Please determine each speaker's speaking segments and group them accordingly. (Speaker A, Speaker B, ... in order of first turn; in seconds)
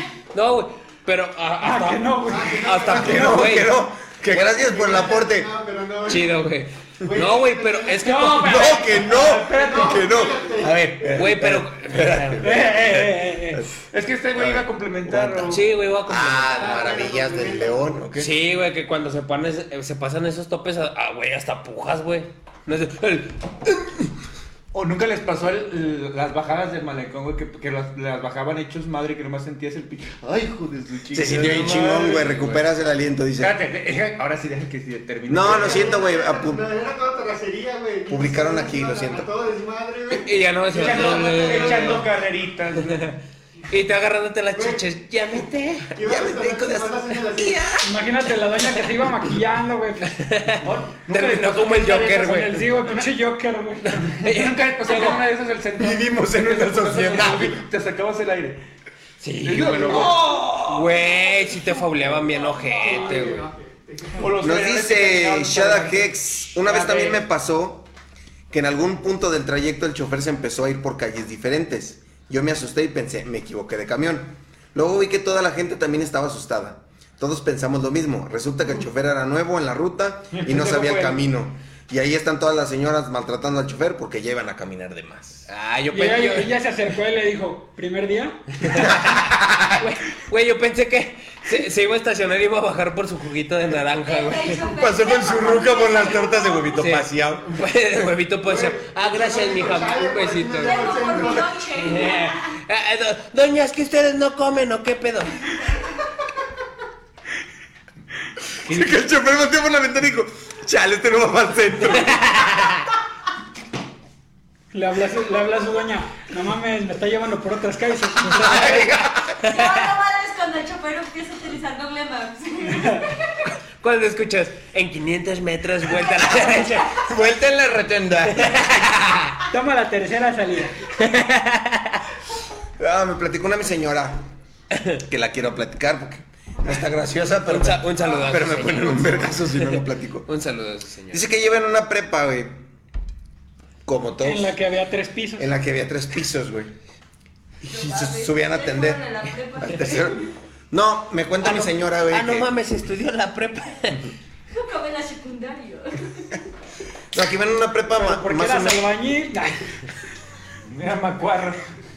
Speaker A: 0.3-3.8, 6.1-8.8, 11.1-12.5, 15.5-17.0, 18.2-24.1, 31.4-32.6, 40.1-42.0, 43.7-46.0, 50.1-52.6, 53.8-55.2, 59.2-63.5, 85.5-86.5, 88.6-94.7, 96.8-101.2, 101.7-105.4, 112.0-112.8, 119.4-119.8, 123.8-127.0, 128.3-129.4, 131.0-132.0, 134.7-135.0, 137.4-141.3, 151.4-154.1
Speaker B: 1.6-2.6, 8.1-8.4, 12.4-13.6, 47.8-50.1, 52.4-54.1, 85.9-88.4, 114.7-118.9, 129.5-130.7, 144.2-145.5, 157.9-159.7
Speaker C: 2.2-3.5, 4.5-6.4, 7.0-8.2, 9.5-10.9, 16.6-17.9, 35.4-40.4, 41.1-41.6, 44.5-44.8, 46.0-47.6, 62.4-64.3, 98.4-101.5
Speaker D: 2.9-5.5, 8.3-13.8, 14.3-18.3, 31.1-33.6, 35.3-36.7, 38.1-39.3, 46.0-47.8, 55.8-57.6, 64.4-67.8, 68.5-85.5, 88.8-89.8, 94.7-97.5, 108.7-112.7, 118.3-119.4, 126.9-128.8, 132.8-134.2, 135.1-140.3, 141.1-142.6, 143.8-144.6, 145.4-146.7, 147.7-149.0, 149.6-150.2, 150.7-152.5, 157.1-158.8
Speaker E: 8.0-10.2, 12.4-13.1, 13.9-15.6, 24.7-32.4, 33.4-36.0, 40.7-43.2, 50.6-53.0, 54.2-58.6, 59.4-60.9, 64.2-67.2, 80.3-81.2, 108.7-109.0, 160.7-161.6
Speaker F: 94.0-96.8, 100.6-102.5, 119.5-123.2, 147.7-150.3, 154.5-156.3